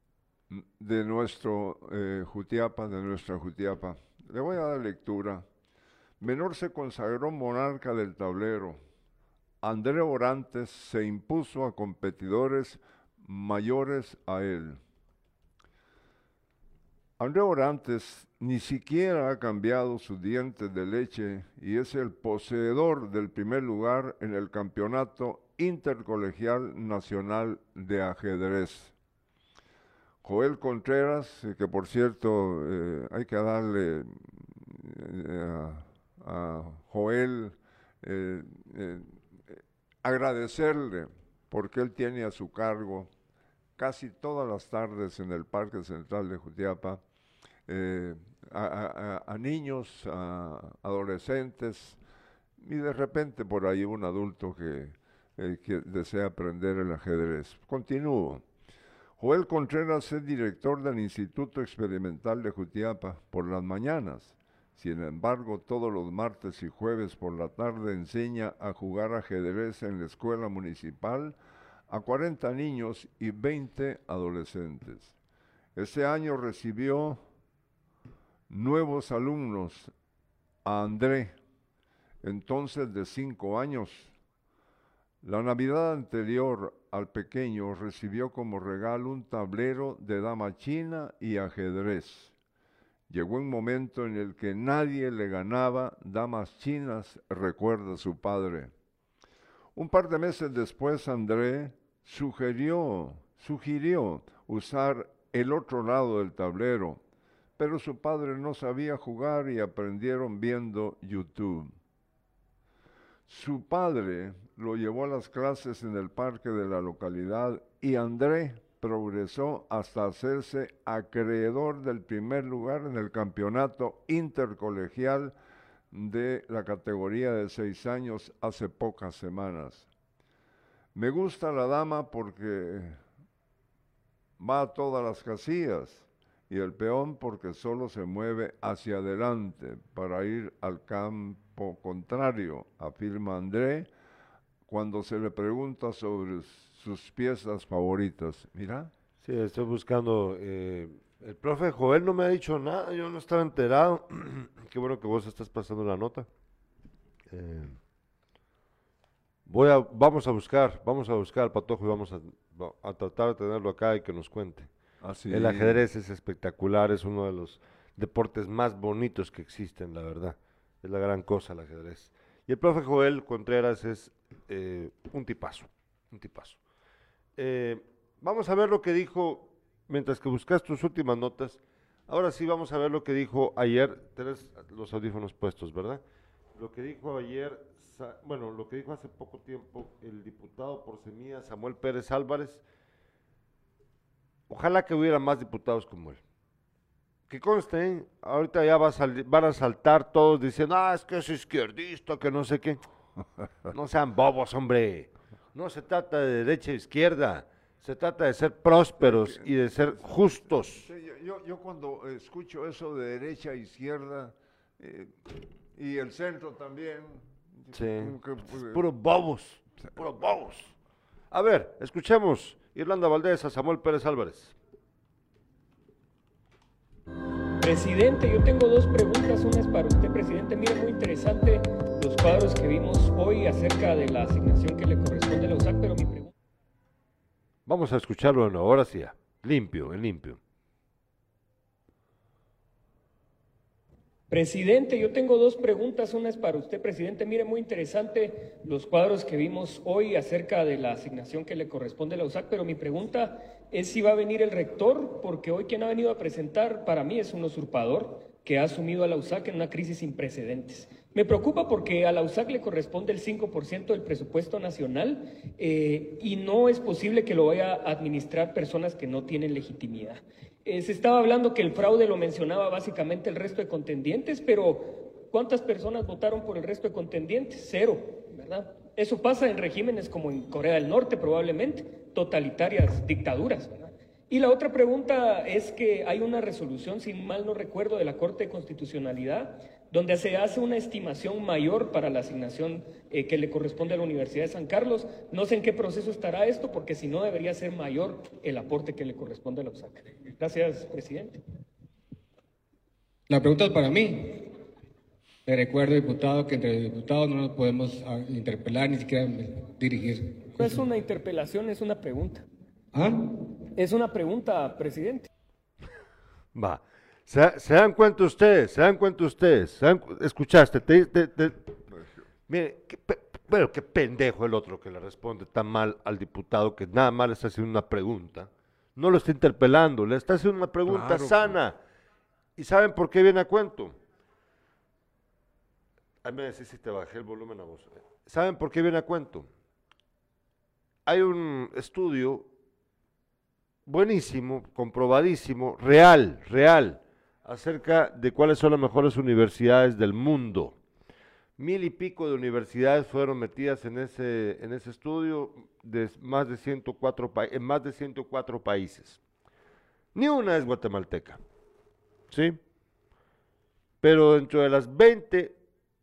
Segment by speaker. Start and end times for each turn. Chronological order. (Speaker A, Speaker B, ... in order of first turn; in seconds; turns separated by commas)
Speaker A: 0.5-5.5, Speaker A: 6.2-8.8, Speaker A: 9.6-14.8, Speaker A: 17.2-28.9, Speaker A: 30.2-43.1, Speaker A: 43.8-47.0, Speaker A: 47.7-52.0, Speaker A: 52.6-58.4, Speaker A: 59.2-71.4, Speaker A: 71.9-75.2, Speaker A: 75.7-77.2, Speaker A: 78.5-79.9, Speaker A: 80.6-81.3, Speaker A: 82.2-84.1, Speaker A: 85.2-92.3, Speaker A: 93.1-98.7, Speaker A: 99.8-107.0, Speaker A: 107.6-111.7, Speaker A: 113.3-125.3, Speaker A: 125.9-129.9, Speaker A: 130.9-133.0, Speaker A: 134.4-143.9, Speaker A: 144.7-148.9, Speaker B: 149.2-156.3, Speaker B: 157.3-157.8, Speaker B: 159.4-164.7, Speaker A: 165.0-165.8, Speaker B: 165.3-176.6, Speaker B: 177.4-186.0, Speaker B: 186.5-192.6, Speaker B: 194.5-196.2, Speaker B: 197.3-202.8, Speaker B: 203.7-210.9, Speaker A: 209.0-218.8, Speaker B: 217.7-220.7, Speaker B: 221.3-224.6, Speaker C: 227.6-236.3, Speaker B: 237.7-240.4, Speaker C: 244.3-301.4, Speaker D: 303.3-304.5, Speaker D: 305.4-310.8, Speaker C: 310.6-312.4, Speaker D: 312.9-313.2, Speaker C: 313.8-315.3, Speaker B: 316.5-321.7, Speaker A: 321.9-322.2, Speaker B: 322.5-331.8, Speaker A: 330.9-331.6, Speaker B: 332.6-333.9, Speaker B: 336.2-339.5, Speaker B: 341.1-342.5, Speaker B: 343.9-350.8, Speaker B: 351.6-359.2, Speaker B: 360.1-361.4, Speaker B: 362.3-362.6, Speaker B: 364.0-365.6